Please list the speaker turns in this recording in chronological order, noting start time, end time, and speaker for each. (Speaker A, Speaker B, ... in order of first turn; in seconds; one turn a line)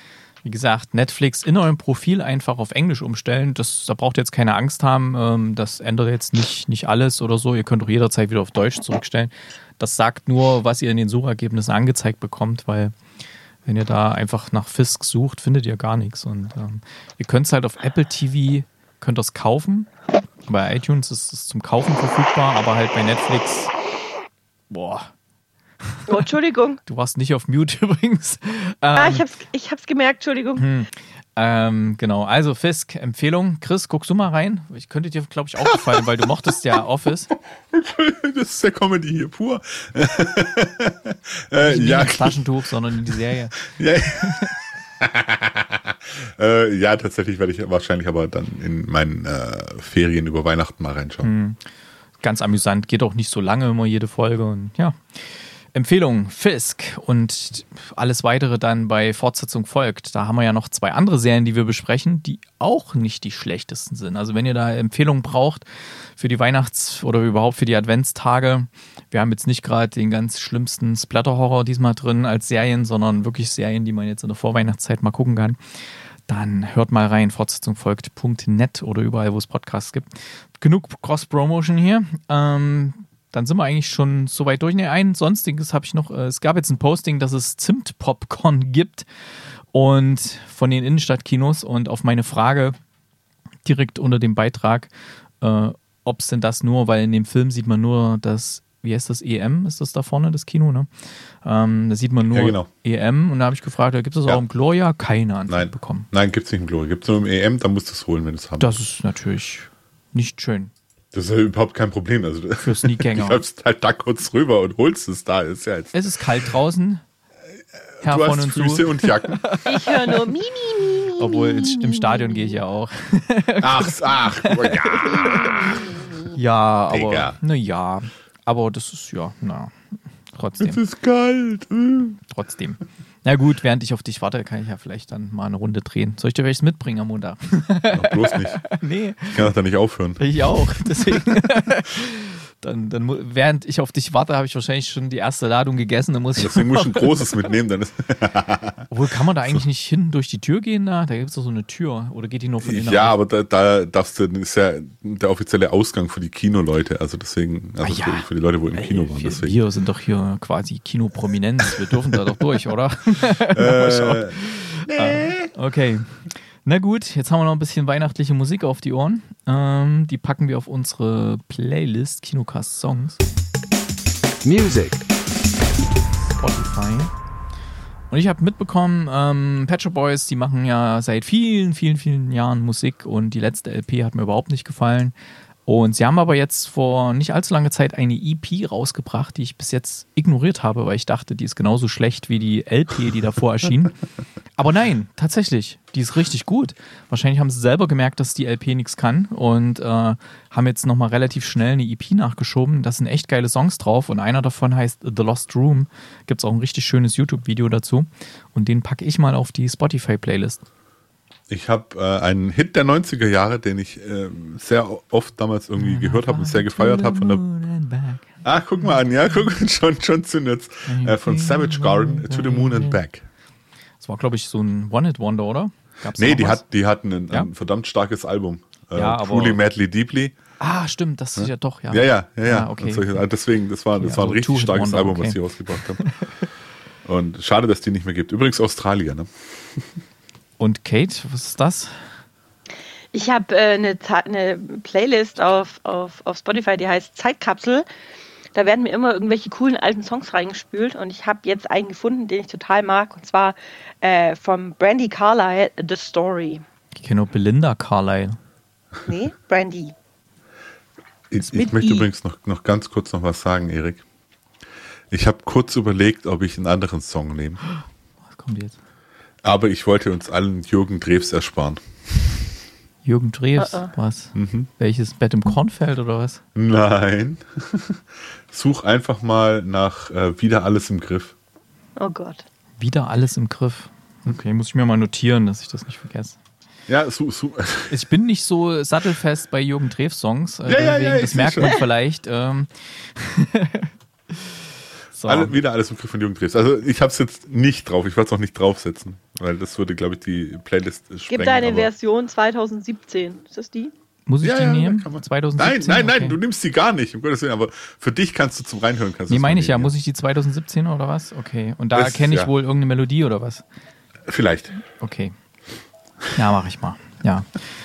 Speaker A: 0.5-12.9
Speaker A: 13.7-19.9
Speaker A: 20.5-23.7
Speaker A: 24.7-25.1
Speaker A: 25.9-26.3
Speaker B: 26.1-26.8
Speaker A: 26.9-29.2
Speaker B: 28.9-30.7
Speaker A: 30.6-37.3
Speaker C: 37.7-42.4
Speaker A: 41.6-43.6
Speaker C: 43.6-51.3
Speaker A: 44.2-44.5
Speaker A: 51.2-51.6
Speaker A: 52.2-65.7
Speaker A: 66.2-75.6
Speaker A: 76.3-89.1
Speaker A: 89.7-92.8
Speaker A: 93.7-94.9
Speaker A: 95.4-100.9
Speaker A: 101.4-106.1
Speaker C: 102.3-102.7
Speaker C: 105.5-108.8
Speaker A: 108.6-110.7
Speaker C: 111.1-116.0
Speaker A: 112.6-113.4
Speaker A: 115.9-117.0
Speaker C: 118.0-119.5
Speaker A: 118.0-120.2
Speaker B: 119.7-122.6
Speaker A: 121.2-129.7
Speaker C: 123.6-126.3
Speaker C: 126.9-127.4
Speaker A: 130.3-130.8
Speaker C: 130.6-132.2
Speaker A: 132.3-139.5
Speaker C: 137.9-138.6
Speaker C: 139.3-140.3
Speaker A: 140.2-147.4
Speaker C: 146.4-148.9
Speaker A: 148.9-153.2
Speaker C: 152.6-159.6
Speaker A: 157.8-173.2
Speaker C: 163.6-165.5
Speaker C: 174.6-174.9
Speaker A: 176.4-177.1
Speaker A: 178.1-185.1
Speaker A: 185.7-194.0
Speaker A: 194.6-210.6
Speaker C: 211.5-217.4
Speaker A: 215.8-218.3
Speaker C: 218.4-223.2
Speaker A: 220.9-223.0
Speaker A: 224.0-226.6
Speaker C: 226.2-230.4
Speaker A: 228.9-229.6
Speaker A: 230.6-233.2
Speaker C: 231.4-236.0
Speaker A: 234.0-236.1
Speaker C: 237.1-239.3
Speaker A: 240.6-242.1
Speaker B: 243.1-247.9
Speaker B: 248.5-256.6
Speaker A: 257.0-258.4
Speaker B: 259.1-259.9
Speaker C: 261.3-264.0
Speaker B: 261.4-262.1
Speaker C: 265.1-267.6
Speaker A: 268.3-268.8
Speaker C: 269.4-271.8
Speaker A: 273.1-276.4
Speaker B: 273.6-273.9
Speaker C: 274.4-274.7
Speaker C: 276.6-281.4
Speaker B: 282.0-282.4
Speaker A: 282.8-286.4
Speaker C: 286.9-288.0
Speaker A: 287.9-294.5
Speaker C: 290.7-291.8
Speaker A: 295.1-295.5
Speaker C: 295.2-301.9
Speaker B: 301.3-303.9
Speaker A: 304.3-306.4
Speaker C: 304.4-309.9
Speaker A: 309.3-313.6
Speaker C: 311.9-312.5
Speaker C: 314.3-314.8
Speaker A: 315.0-315.4
Speaker A: 316.3-317.6